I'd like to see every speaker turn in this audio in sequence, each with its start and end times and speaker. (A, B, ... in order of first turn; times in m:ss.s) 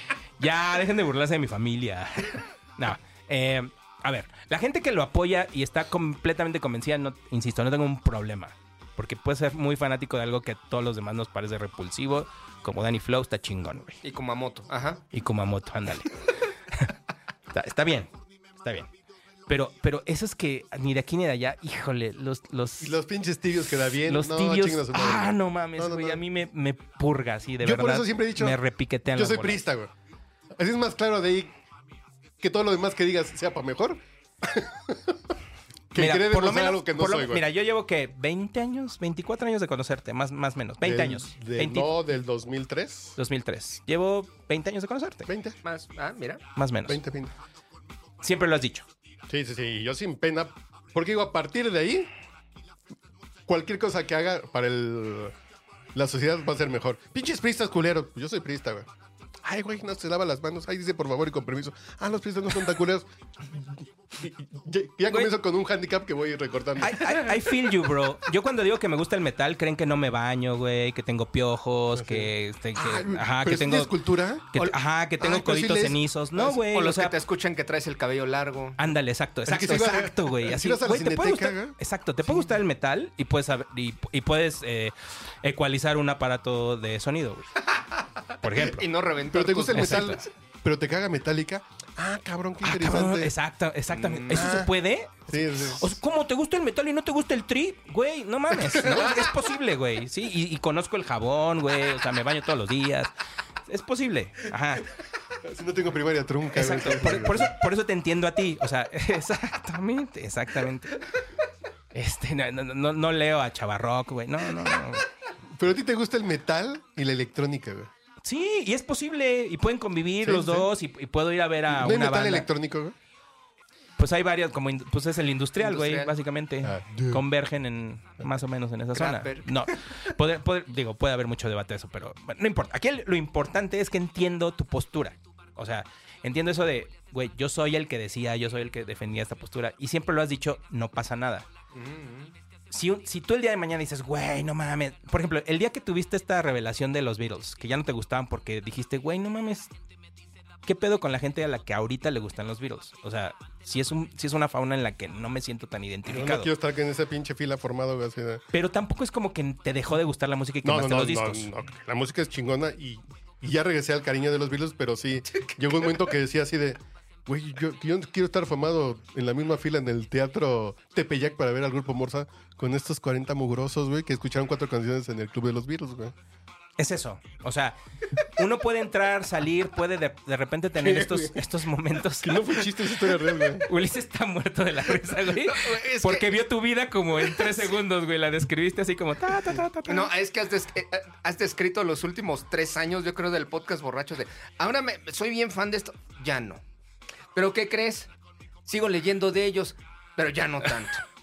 0:00.4-0:14.0 A
0:14.0-0:15.0 B
0:15.1-0:16.9 A
0:17.5-0:18.9 A
0:19.5-0:23.0 A
0:22.8-0:26.2 C
0:23.8-0:29.6 A
0:27.6-0:29.9 C
0:30.6-0:31.5 C
0:32.4-0:35.2 C
0:35.9-0:37.4 C
0:36.0-0:41.9 A
0:40.8-0:43.1 C
0:43.2-0:45.3 A
0:45.3-0:45.6 C
0:45.6-0:46.4 B
0:46.6-0:47.0 A
0:46.8-0:47.3 C
0:48.2-0:48.8 A
0:49.3-0:52.1 C
0:53.5-0:55.3 C
0:55.9-0:58.9 C
0:59.4-1:07.2 C
1:06.8-1:13.9 A
1:11.9-1:16.1 C
1:14.5-1:17.1 A
1:16.4-1:18.8 B
1:18.8-1:27.6 A
1:19.4-1:21.7 C
1:28.4-1:28.9 A
1:28.4-1:30.3 B
1:29.3-1:33.3 C
1:29.7-1:30.2 A
1:32.6-1:43.1 A
1:33.9-1:34.5 B
1:34.3-1:34.7 C
1:35.3-1:36.0 C
1:43.7-1:44.9 A
1:45.4-1:47.5 C
1:46.5-1:51.0 A
1:51.9-1:55.0 A
1:55.5-1:57.9 C
1:58.2-2:02.5 A
2:00.2-2:00.7 C
2:01.7-2:02.9 C
2:04.0-2:21.5 A
2:05.6-2:06.1 B
2:06.6-2:07.2 C
2:08.9-2:10.1 B
2:21.7-2:22.3 B
2:22.7-2:29.7 A
2:30.6-2:36.5 A
2:36.1-2:38.4 C
2:38.5-2:41.5 A
2:40.6-2:56.1 C
2:56.8-3:10.1 A
3:00.8-3:01.4 C
3:02.2-3:03.7 C
3:05.4-3:06.4 B
3:07.2-3:07.7 B
3:09.8-3:16.6 B
3:17.3-3:18.1 B
3:18.6-3:21.0 B